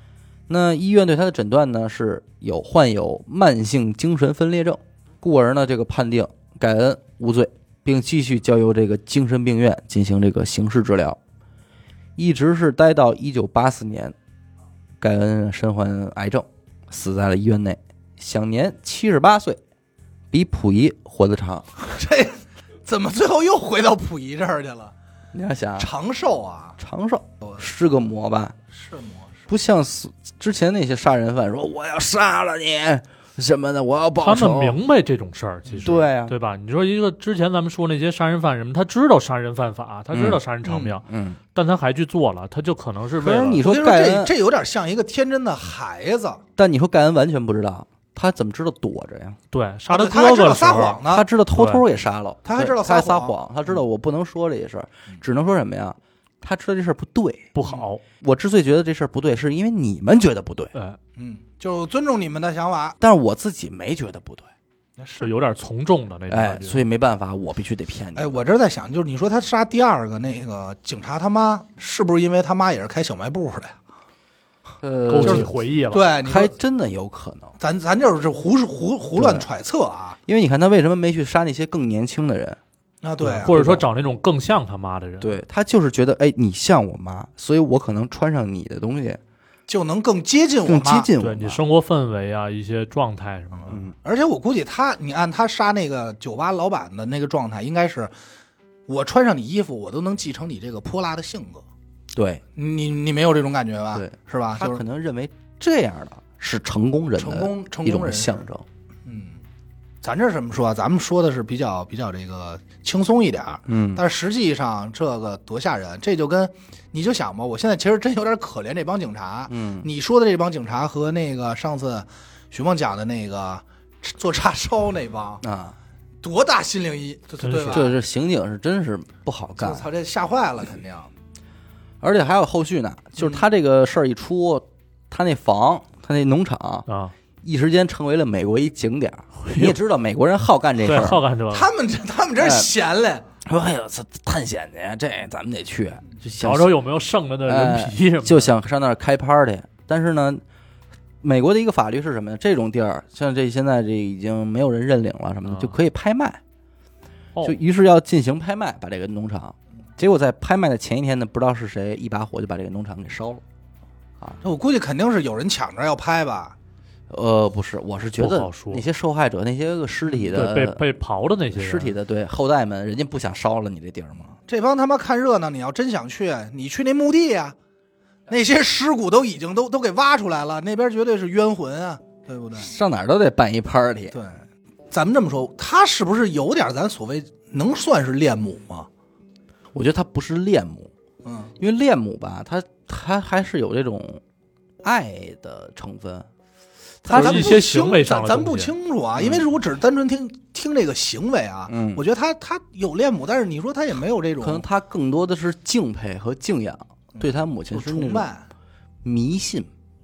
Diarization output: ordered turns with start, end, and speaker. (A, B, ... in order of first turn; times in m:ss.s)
0:00.5-0:11.2 A
0:12.2-0:14.2 A
0:15.0-0:19.6 A
0:20.3-0:21.7 A
0:21.8-0:24.9 B
0:25.3-0:25.9 A
0:25.8-0:26.8 B
0:26.8-0:28.6 A
0:28.7-0:29.5 B
0:29.5-0:34.8 A
0:34.2-0:43.6 C
0:35.7-0:36.0 B
0:35.8-0:36.4 A
0:40.1-0:40.4 A
0:40.6-0:41.0 B
0:41.0-0:41.4 A
0:43.2-0:44.3 A
0:43.6-0:46.4 B
0:46.6-0:49.4 A
0:49.5-0:51.0 C
0:49.9-0:51.3 B
0:51.1-0:57.5 A
0:51.6-0:51.8 C
0:52.4-0:53.4 B
0:57.6-0:58.0 C
0:58.2-1:00.7 A
1:01.2-1:03.0 B
1:03.0-1:04.5 A
1:05.0-1:05.3 B
1:05.2-1:06.8 C
1:06.3-1:08.4 A
1:08.2-1:13.8 B
1:14.8-1:15.5 A
1:15.1-1:16.1 C
1:15.2-1:16.6 B
1:16.2-1:17.6 A
1:17.6-1:20.2 B
1:19.2-1:19.5 A
1:20.3-1:22.6 A
1:23.0-1:23.6 B
1:23.2-1:25.4 C
1:23.4-1:23.9 A
1:25.2-1:29.2 A
1:29.7-1:31.1 B
1:30.7-1:31.6 A
1:31.2-1:33.8 C
1:33.5-1:38.1 B
1:38.9-1:41.6 B
1:42.1-1:42.4 A
1:42.6-1:44.8 B
1:44.0-1:48.6 A
1:47.2-1:48.4 B
1:49.1-1:49.4 B
1:50.0-2:05.4 B
1:53.7-1:54.0 A
1:59.5-1:59.9 A
2:05.4-2:05.8 A
2:06.2-2:07.9 B
2:07.4-2:07.9 C
2:07.7-2:09.8 A
2:09.6-2:11.1 B
2:12.0-2:16.9 A
2:16.9-2:17.2 C
2:17.4-2:21.2 A
2:19.4-2:19.8 C
2:20.8-2:21.7 C
2:21.5-2:23.3 B
2:22.4-2:22.7 A
2:23.4-2:26.7 A
2:26.4-2:28.5 C
2:27.4-2:30.4 A
2:31.2-2:36.4 A
2:35.5-2:35.8 C
2:37.4-2:43.4 A
2:44.4-2:46.6 B
2:47.1-2:50.8 A
2:48.1-2:48.8 C
2:50.1-2:50.3 B
2:50.3-2:51.9 C
2:51.5-2:54.4 A
2:54.2-2:57.6 B
2:58.3-3:02.7 B
3:02.6-3:04.2 A
3:04.1-3:08.9 B
3:09.7-3:10.9 A
3:11.2-3:11.5 B
3:11.6-3:14.2 A
3:14.8-3:16.3 A
3:17.0-3:17.6 A
3:17.1-3:24.6 B
3:17.1-3:18.7 C
3:19.2-3:19.4 A
3:21.7-3:22.0 A
3:24.4-3:28.3 A
3:27.1-3:28.5 B
3:29.0-3:29.7 A